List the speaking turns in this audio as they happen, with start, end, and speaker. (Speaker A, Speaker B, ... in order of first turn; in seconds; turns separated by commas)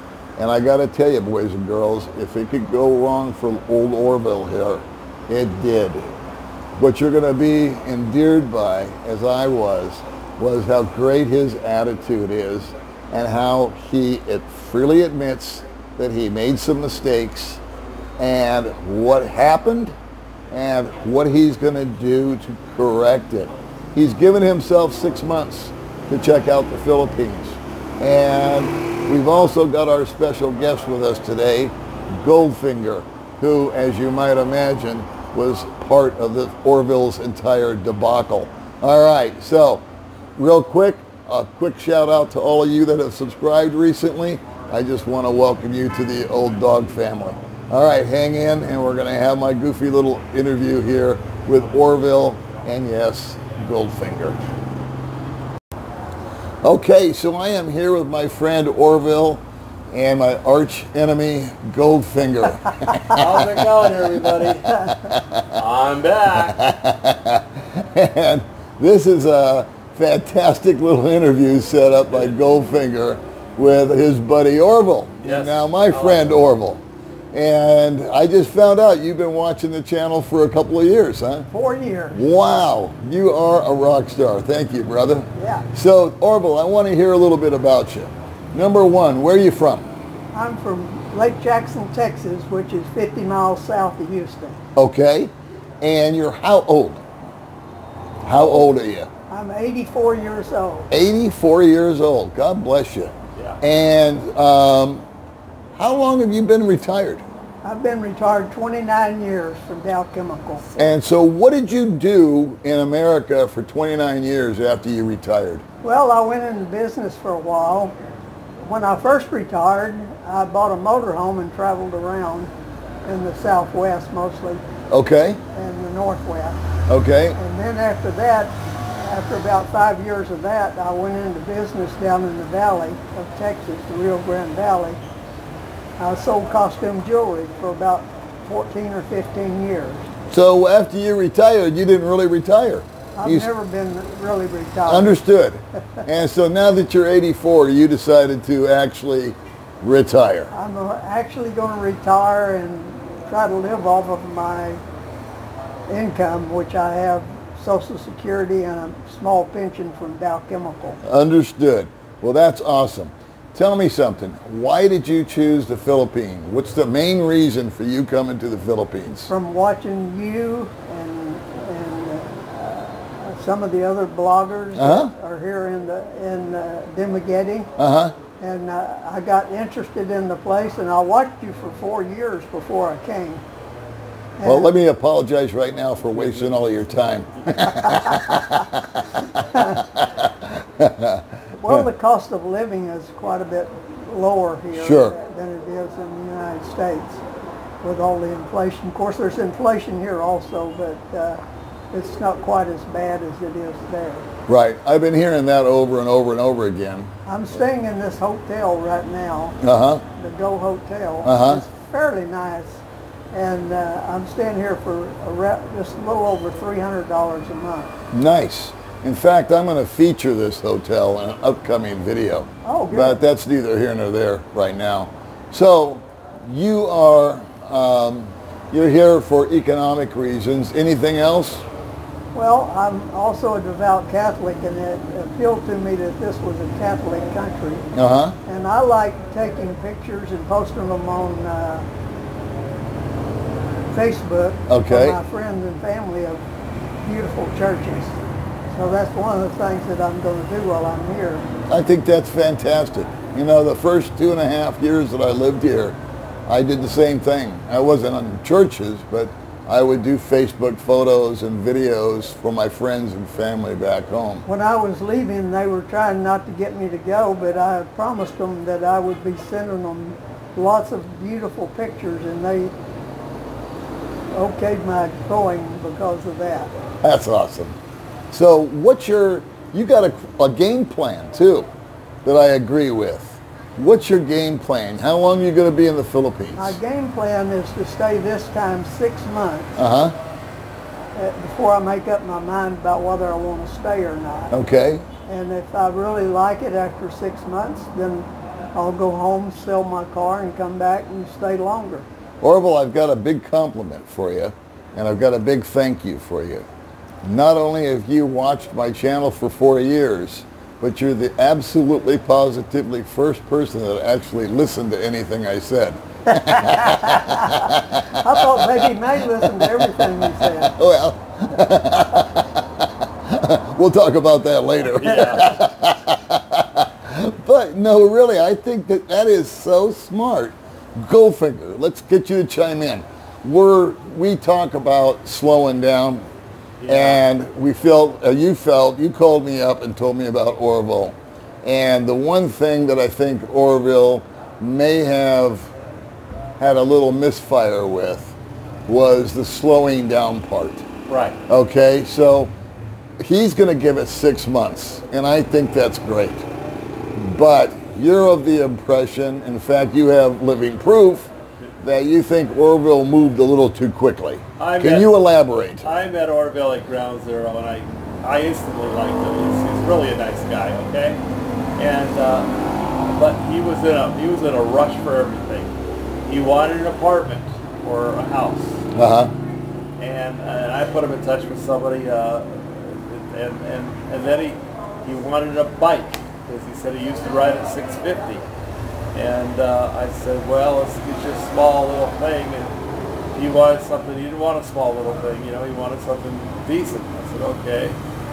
Speaker A: 0.4-6.1, Speaker A: 6.8-17.6, Speaker A: 18.2-20.0, Speaker A: 20.5-39.9, Speaker A: 40.4-54.4, Speaker A: 56.6-65.6, Speaker B: 63.1-65.0, Speaker B: 65.5-66.6, Speaker A: 66.4-76.8, Speaker B: 75.2-76.4, Speaker A: 77.3-81.5, Speaker C: 81.5-82.3, Speaker A: 82.2-89.9, Speaker C: 85.4-85.7, Speaker C: 90.3-94.6, Speaker A: 94.8-97.0, Speaker A: 98.2-99.1, Speaker C: 99.3-100.9, Speaker A: 100.9-105.0, Speaker A: 105.8-107.3, Speaker C: 107.6-110.7, Speaker B: 110.7-111.0, Speaker A: 110.8-115.6, Speaker C: 115.8-118.0, Speaker C: 118.6-122.5, Speaker C: 123.0-124.6, Speaker A: 124.9-125.4, Speaker C: 125.5-126.6, Speaker A: 126.9-127.4, Speaker C: 127.4-135.0, Speaker C: 136.0-140.1, Speaker A: 140.3-143.5, Speaker C: 143.2-145.2, Speaker A: 144.9-150.5, Speaker C: 150.5-154.8, Speaker C: 155.9-161.0, Speaker A: 161.0-169.3, Speaker C: 169.3-177.7, Speaker A: 174.8-175.1, Speaker A: 177.8-178.2, Speaker C: 178.4-183.4, Speaker C: 184.4-184.7, Speaker A: 184.4-191.8, Speaker C: 187.7-188.3, Speaker C: 189.4-189.8, Speaker C: 191.6-197.2, Speaker A: 194.8-195.2, Speaker C: 197.8-201.4, Speaker C: 201.9-204.3, Speaker A: 204.5-207.1, Speaker C: 207.3-209.6, Speaker A: 209.6-210.0, Speaker C: 210.2-218.0, Speaker A: 211.2-211.6, Speaker A: 218.1-231.7, Speaker C: 222.6-223.2, Speaker C: 232.3-237.8, Speaker A: 237.9-238.3, Speaker C: 238.5-241.9, Speaker C: 243.9-246.4, Speaker A: 244.7-245.2, Speaker C: 247.0-248.2, Speaker C: 248.7-251.4, Speaker A: 251.7-264.4, Speaker C: 264.5-272.7, Speaker C: 274.3-276.7, Speaker A: 277.0-277.8, Speaker A: 278.3-281.7, Speaker A: 282.2-286.8, Speaker C: 286.6-289.8, Speaker A: 289.8-290.2, Speaker C: 291.2-294.5, Speaker A: 294.5-295.1, Speaker C: 295.3-302.1, Speaker A: 302.4-306.7, Speaker A: 307.2-336.2, Speaker C: 316.4-320.8, Speaker B: 324.9-325.6, Speaker B: 336.8-337.2, Speaker A: 336.9-345.7, Speaker A: 346.6-348.4, Speaker A: 348.9-350.9, Speaker B: 351.1-351.4, Speaker A: 351.5-352.5, Speaker A: 353.2-356.5, Speaker A: 357.1-361.3, Speaker A: 361.8-365.9, Speaker B: 364.6-365.1, Speaker B: 365.8-371.2, Speaker B: 371.8-375.7, Speaker B: 376.3-378.8, Speaker A: 378.9-379.3, Speaker B: 380.0-388.5, Speaker B: 389.1-392.7, Speaker B: 393.3-398.0